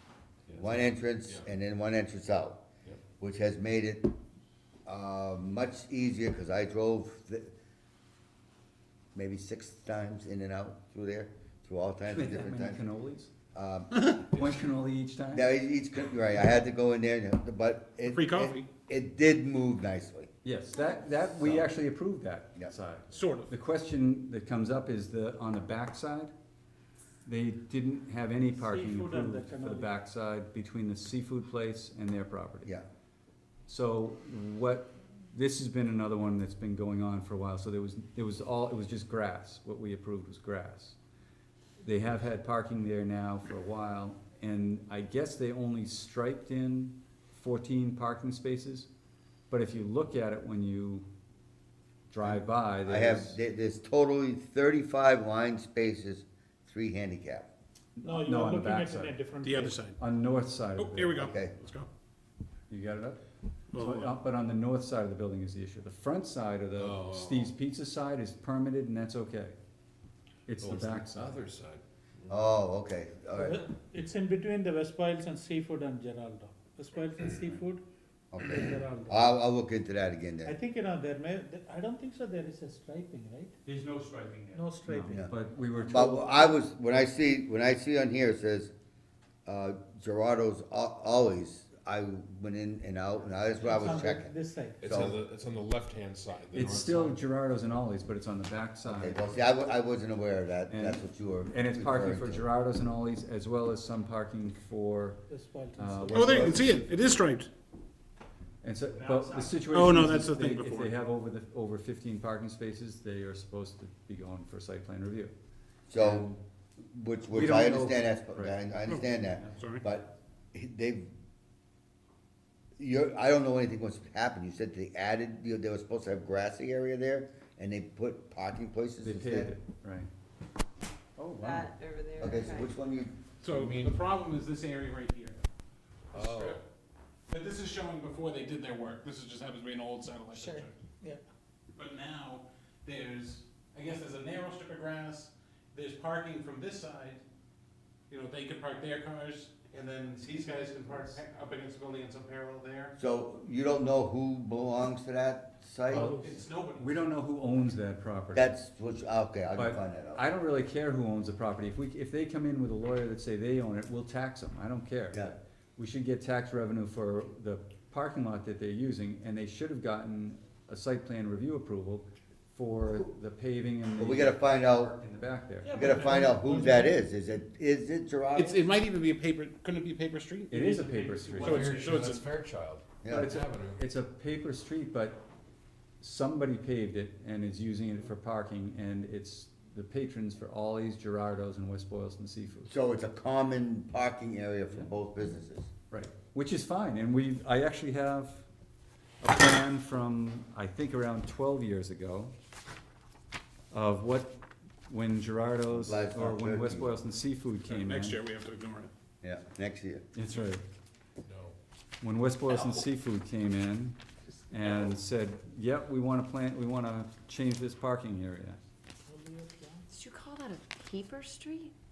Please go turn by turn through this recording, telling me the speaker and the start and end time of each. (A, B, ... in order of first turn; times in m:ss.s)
0:00.5-0:01.5 A
0:00.6-0:02.6 B
0:03.2-0:04.1 B
0:04.8-0:07.5 B
0:09.1-0:12.8 B
0:12.1-0:13.3 C
0:13.5-0:14.2 B
0:14.3-0:15.5 C
0:15.3-0:20.3 B
0:18.0-0:18.7 D
0:20.4-0:26.3 C
0:21.4-0:21.7 B
0:23.1-0:23.5 D
0:27.2-0:32.7 C
0:28.6-0:29.9 E
0:33.7-0:41.0 C
0:41.8-0:48.9 C
0:49.5-0:51.0 C
0:52.1-0:53.4 C
0:52.2-0:57.5 B
0:58.0-0:59.1 C
0:58.0-0:59.8 E
0:59.4-1:00.0 D
1:00.0-1:01.3 C
1:00.8-1:01.9 D
1:01.2-1:01.5 B
1:02.7-1:03.2 C
1:03.7-1:04.1 D
1:03.7-1:09.6 C
1:06.8-1:07.5 A
1:10.5-1:11.4 C
1:10.6-1:12.4 A
1:12.3-1:13.6 B
1:13.3-1:17.8 E
1:18.3-1:20.5 B
1:18.5-1:19.3 E
1:20.4-1:23.6 E
1:23.6-1:26.6 C
1:24.5-1:25.2 E
1:25.1-1:28.7 B
1:29.4-1:35.2 B
1:33.6-1:35.0 E
1:34.8-1:37.2 A
1:36.5-1:39.2 C
1:38.9-1:42.5 B
1:40.7-1:45.2 C
1:45.3-1:46.3 E
1:45.8-1:46.6 C
1:46.1-1:46.8 B
1:46.1-1:47.5 D
1:48.6-1:55.3 C
1:49.6-1:50.9 D
1:55.9-1:56.3 B
1:56.0-1:56.4 C
1:56.8-2:01.1 B
1:57.3-1:58.6 C
1:59.6-1:59.8 D
2:02.8-2:09.5 B
2:09.0-2:10.1 C
2:11.2-2:11.7 C
2:11.4-2:12.7 F
2:12.2-2:13.1 B
2:13.4-2:15.4 D
2:13.5-2:14.0 A
2:16.1-2:16.6 D
2:16.1-2:16.6 A
2:17.3-2:20.7 D
2:20.3-2:21.2 E
2:21.7-2:27.2 D
2:28.1-2:32.9 D
2:33.0-2:36.1 B
2:35.9-2:36.3 E
2:35.9-2:36.2 C
2:36.0-2:37.0 D
2:36.8-2:38.5 C
2:38.3-2:40.2 B
2:39.5-2:56.1 C
2:45.1-2:45.4 B
2:54.0-2:54.9 B
2:55.6-2:56.9 E
2:55.7-2:58.6 B
2:58.3-3:00.7 D
3:00.5-3:01.9 C
3:00.7-3:01.5 E
3:01.4-3:02.2 D
3:01.4-3:03.8 A
3:03.0-3:03.3 B
3:03.1-3:05.2 C
3:06.0-3:12.7 C
3:12.7-3:15.7 B
3:15.9-3:18.4 C
3:19.2-3:22.3 C
3:23.7-3:28.2 C
3:25.7-3:26.9 B
3:27.7-3:28.9 D
3:29.2-3:30.0 B
3:30.1-3:30.6 C
3:31.2-3:31.6 A
3:32.0-3:34.0 C
3:34.5-3:38.6 C
3:39.1-3:39.8 E
3:39.9-3:41.7 F